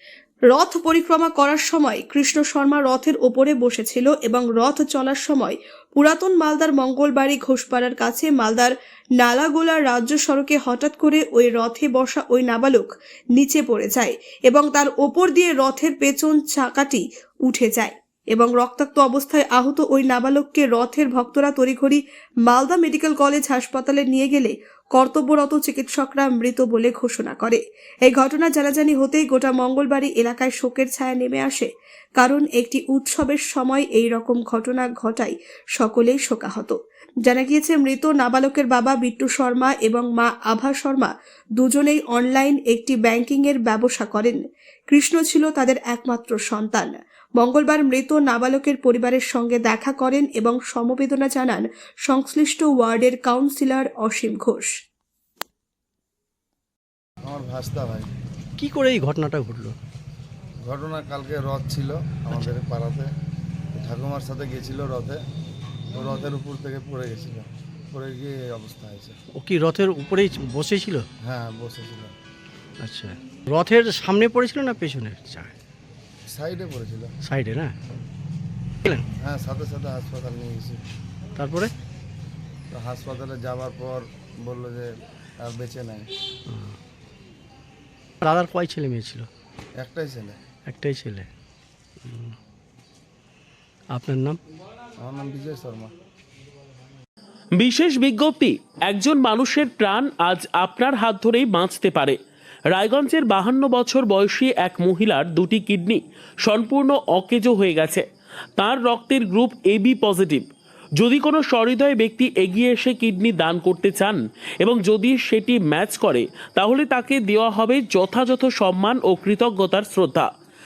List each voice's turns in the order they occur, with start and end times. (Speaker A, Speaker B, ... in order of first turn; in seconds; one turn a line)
Speaker A: 0.5-44.4
Speaker A: 44.9-54.7
Speaker B: 57.2-58.1
Speaker C: 58.6-59.8
Speaker B: 60.6-63.1
Speaker B: 63.8-65.2
Speaker B: 65.9-69.2
Speaker C: 69.4-71.0
Speaker B: 71.2-72.1
Speaker C: 72.8-75.5
Speaker B: 76.3-77.1
Speaker C: 77.2-77.8
Speaker B: 79.2-80.8
Speaker C: 81.4-81.7
Speaker B: 82.7-86.1
Speaker C: 86.5-86.8
Speaker C: 88.2-89.3
Speaker B: 89.8-90.4
Speaker C: 90.7-91.3
Speaker C: 92.0-92.3
Speaker C: 93.9-94.4
Speaker B: 95.0-95.9
Speaker D: 97.5-102.2
Speaker D: 102.7-108.0
Speaker D: 108.6-120.3